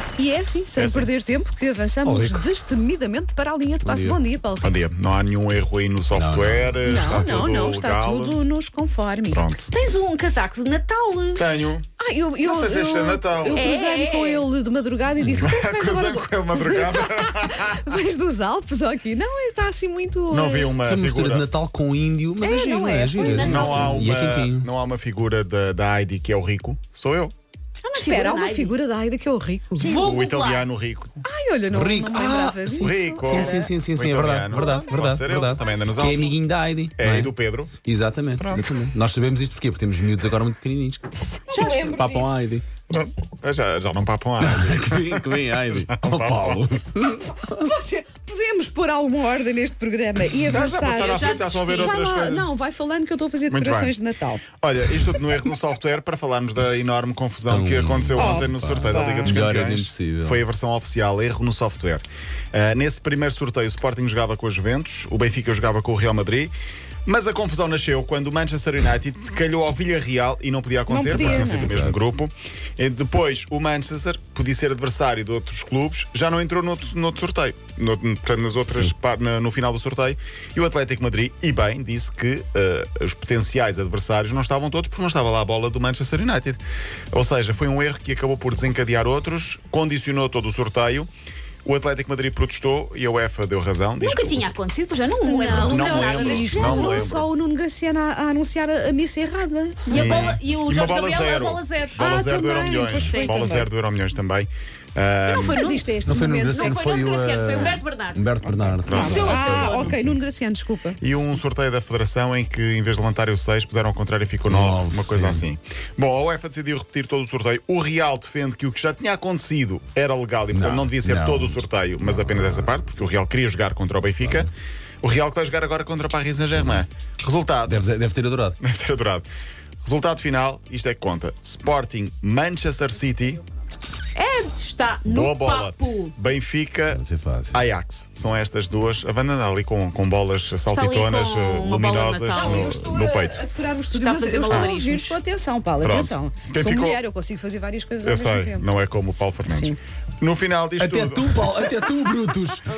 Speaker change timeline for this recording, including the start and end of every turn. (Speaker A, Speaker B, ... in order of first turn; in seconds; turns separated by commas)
Speaker A: 0.2-4.8, Speaker B: 0.8-1.1, Speaker C: 2.0-2.6, Speaker C: 3.8-4.2, Speaker B: 4.6-8.4, Speaker C: 6.1-7.2, Speaker A: 6.8-9.5, Speaker B: 9.3-9.7, Speaker D: 9.7-11.5, Speaker B: 11.4-11.9, Speaker A: 12.0-20.8, Speaker B: 12.4-13.7, Speaker D: 13.5-14.5, Speaker C: 15.2-15.5, Speaker B: 15.4-17.9, Speaker B: 20.3-21.5, Speaker C: 20.8-24.7, Speaker A: 22.4-23.9, Speaker D: 23.1-23.9, Speaker B: 23.4-27.3, Speaker D: 27.8-28.8, Speaker A: 28.0-30.0, Speaker D: 29.8-30.7, Speaker B: 29.8-31.2, Speaker A: 31.2-33.7, Speaker C: 31.7-42.6, Speaker B: 32.7-36.3, Speaker B: 37.0-37.7, Speaker B: 38.4-38.9, Speaker A: 41.4-42.4, Speaker B: 42.9-46.7, Speaker C: 44.4-47.7, Speaker A: 47.3-54.5, Speaker B: 50.4-52.5, Speaker D: 50.8-52.0, Speaker B: 53.5-54.0, Speaker B: 54.6-66.5, Speaker C: 57.5-60.4, Speaker A: 58.1-59.4, Speaker B: 67.1-86.6, Speaker A: 70.9-71.8, Speaker C: 71.1-72.0, Speaker B: 87.1-91.1, Speaker B: 91.7-94.5, Speaker D: 94.0-97.1, Speaker A: 95.2-100.3, Speaker B: 95.5-97.3, Speaker D: 99.8-102.0, Speaker B: 99.9-105.6, Speaker A: 102.0-103.7, Speaker D: 103.0-103.4, Speaker D: 105.3-106.0, Speaker A: 105.4-106.8, Speaker C: 106.0-110.1, Speaker D: 106.5-108.3, Speaker A: 108.4-111.0, Speaker B: 108.8-110.2, Speaker D: 108.9-109.9, Speaker B: 111.0-124.5, Speaker C: 114.4-115.5, Speaker C: 120.5-122.7, Speaker C: 124.2-124.5, Speaker B: 125.0-127.8, Speaker C: 126.5-126.8, Speaker C: 127.7-128.6, Speaker B: 128.6-129.3, Speaker B: 129.8-133.4, Speaker D: 134.2-136.1, Speaker B: 135.1-143.4, Speaker C: 136.9-137.6, Speaker D: 140.7-142.8, Speaker A: 142.3-148.7, Speaker D: 143.9-145.2, Speaker B: 144.5-144.8, Speaker B: 145.8-147.0, Speaker B: 148.0-151.7, Speaker A: 149.5-149.8, Speaker C: 150.8-152.7